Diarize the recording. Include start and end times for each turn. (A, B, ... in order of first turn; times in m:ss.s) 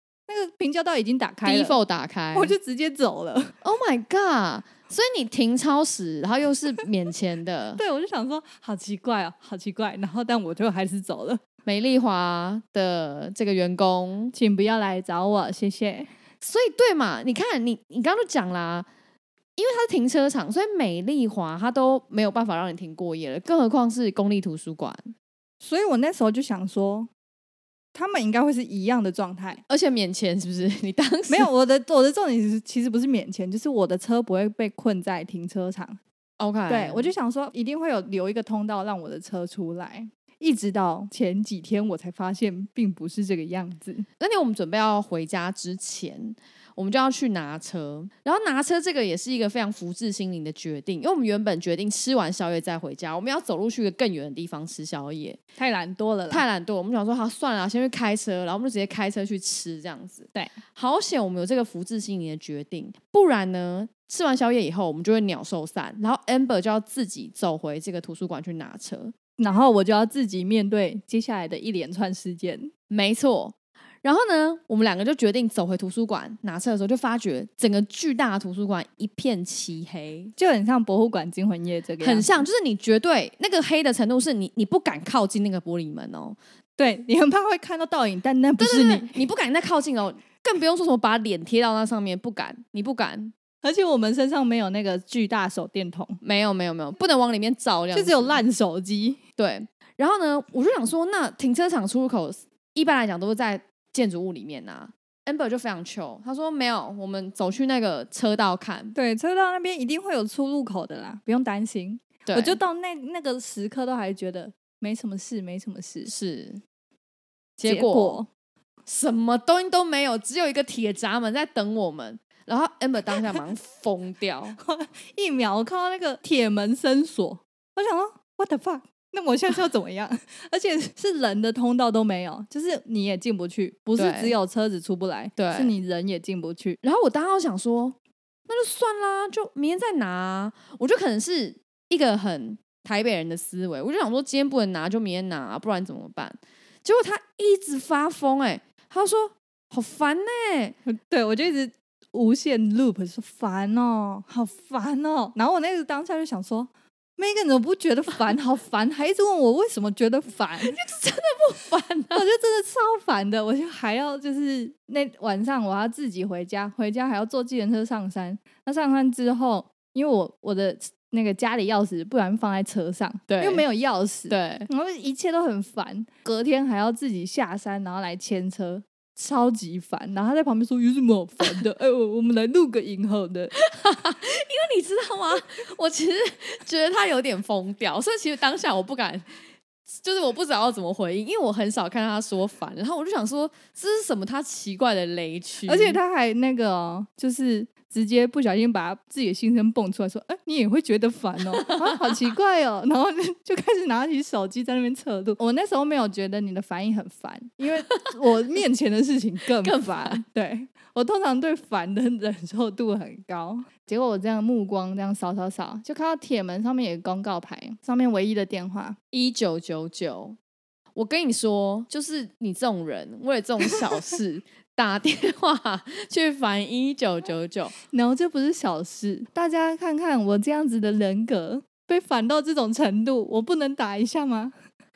0:00.3-0:01.8 A
0:01.4-0:02.5 B
0:02.3-0:03.5 A
0:03.6-0:07.8 B
0:07.8-0:11.4 A
0:11.6-0:14.3 B
0:14.3-0:16.1 A
0:16.4-0:18.9 B
0:19.6-0:25.1 B
0:25.6-0:27.1 A
0:27.9-0:29.6 A
0:29.7-0:31.5 B
0:31.3-0:36.0 A
0:36.4-0:37.1 B
0:36.7-0:44.1 A
0:44.2-0:55.4 B
0:55.6-0:56.4 A
0:56.3-1:09.2 B
1:09.4-1:12.7 A
1:12.9-1:20.3 B
1:20.4-1:22.3 A
1:22.0-1:26.4 B
1:26.8-1:29.1 A
1:28.6-1:33.3 B
1:33.6-1:36.2 A
1:36.2-1:38.4 B
1:37.9-1:39.2 A
1:39.4-1:49.0 B
1:49.0-1:56.1 A
1:52.2-1:52.6 B
1:56.1-1:56.6 B
1:57.6-1:58.2 B
1:57.7-1:58.3 A
1:58.9-2:04.6 B
2:04.6-2:16.8 A
2:14.0-2:14.4 B
2:15.4-2:15.7 B
2:16.8-2:18.0 B
2:18.5-2:30.8 B
2:30.9-2:40.8 A
2:40.6-2:42.2 B
2:42.1-3:03.6 A
2:53.3-2:53.6 B
2:54.3-2:54.7 B
3:03.6-3:09.3 B
3:09.9-3:16.0 B
3:15.7-3:39.0 A
3:21.6-3:22.1 B
3:29.6-3:30.2 B
3:39.1-3:40.4 B
3:41.0-3:47.7 B
3:47.9-3:54.5 A